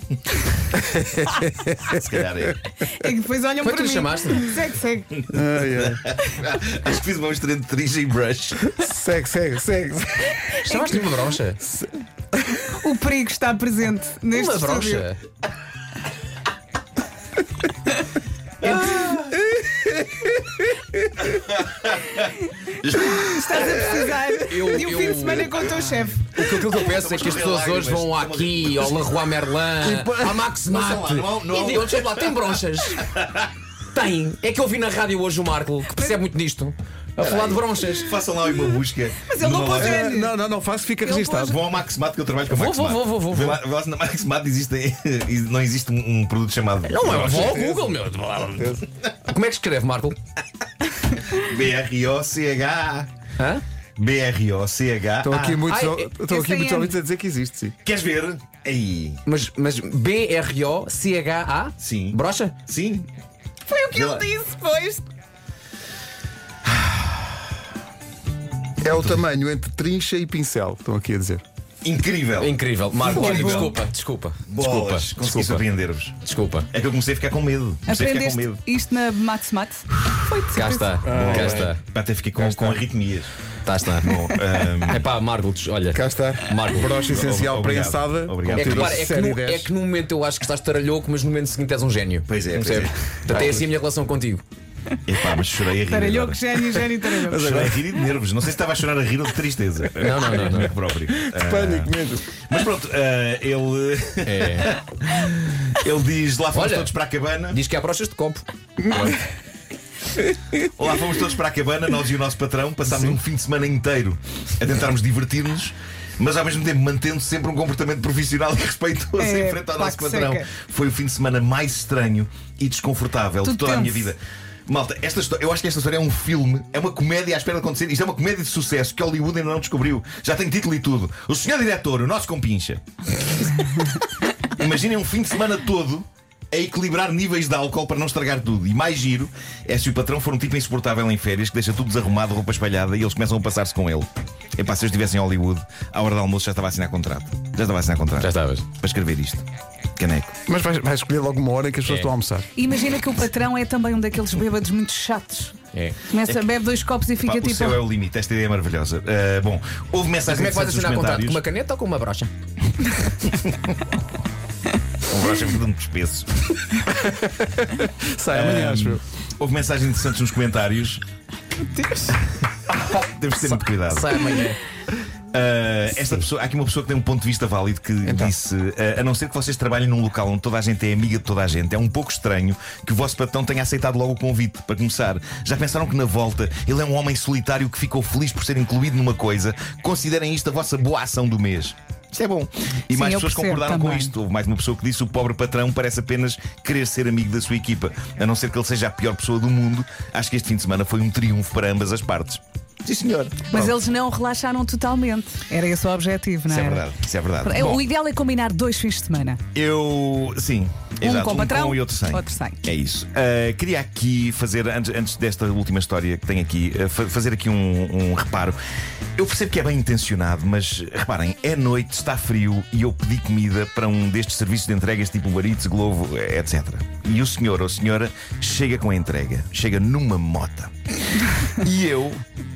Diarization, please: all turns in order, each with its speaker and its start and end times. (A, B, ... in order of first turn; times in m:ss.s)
0:00.8-0:02.0 A
0:01.8-0:02.6 B
0:02.9-0:05.1 C
0:03.6-0:04.5 D
0:05.2-0:08.6 B
0:05.3-0:06.0 A
0:08.7-0:10.5 A
0:10.6-0:11.0 C
0:10.6-0:11.6 D
0:12.8-0:15.1 C
0:14.3-0:15.2 D
0:18.6-0:19.2 B
0:21.3-0:24.2 B
0:23.3-0:26.2 C
0:24.5-0:25.7 D
0:26.3-0:33.0 D
0:26.5-0:29.1 B
0:29.8-0:30.4 A
0:30.6-0:33.5 B
0:33.9-0:38.1 D
0:37.2-0:40.1 B
0:39.2-0:40.2 C
0:39.6-0:41.6 A
0:41.0-0:41.5 C
0:41.3-0:47.6 B
0:42.5-0:43.6 D
0:46.8-0:50.2 D
0:47.3-0:47.8 A
0:48.6-0:48.8 A
0:51.3-0:53.1 B
0:54.0-0:55.7 B
0:55.2-0:57.7 A
0:55.7-0:56.1 D
0:56.2-0:56.9 C
0:57.8-0:59.2 B
0:59.2-1:02.6 D
1:01.8-1:03.1 B
1:03.7-1:05.0 C
1:03.9-1:04.3 B
1:08.8-1:11.4 A
1:11.8-1:13.8 B
1:12.4-1:15.6 D
1:13.1-1:13.7 C
1:14.5-1:16.2 B
1:16.2-1:16.7 D
1:16.7-1:18.6 B
1:17.9-1:21.0 C
1:20.5-1:21.8 D
1:21.0-1:21.6 A
1:21.0-1:23.3 B
1:22.4-1:22.8 D
1:23.6-1:26.9 D
1:23.9-1:25.0 B
1:25.9-1:29.7 A
1:26.9-1:29.1 B
1:28.5-1:34.4 D
1:32.3-1:33.6 B
1:35.1-1:36.6 B
1:35.9-1:37.4 C
1:37.1-1:37.8 A
1:37.2-1:41.9 B
1:40.0-1:40.7 D
1:41.3-1:42.3 A
1:42.4-1:47.6 B
1:44.2-1:44.7 D
1:46.5-1:46.9 D
1:47.5-1:49.2 D
1:50.6-2:12.8 B
1:59.2-2:00.4 C
2:03.4-2:04.0 C
2:14.5-2:29.4 B
2:28.2-2:28.6 D
2:30.0-2:30.3 B
2:30.5-2:32.5 A
2:32.5-2:35.5 C
2:36.1-2:37.8 C
2:37.2-2:41.4 B
2:40.3-2:42.3 D
2:43.2-2:43.6 B
2:45.1-2:46.3 B
2:46.9-2:49.0 A
2:48.3-2:51.0 B
2:52.8-2:54.3 B
2:53.4-2:54.6 D
2:55.3-3:23.8 B
2:58.0-2:58.3 A
3:12.9-3:14.0 C
3:23.5-3:26.8 C
3:26.5-3:27.8 B
3:27.4-3:29.4 C
3:29.5-3:38.6 B
3:31.0-3:32.6 C
3:39.2-3:50.7 B
3:51.5-3:52.2 B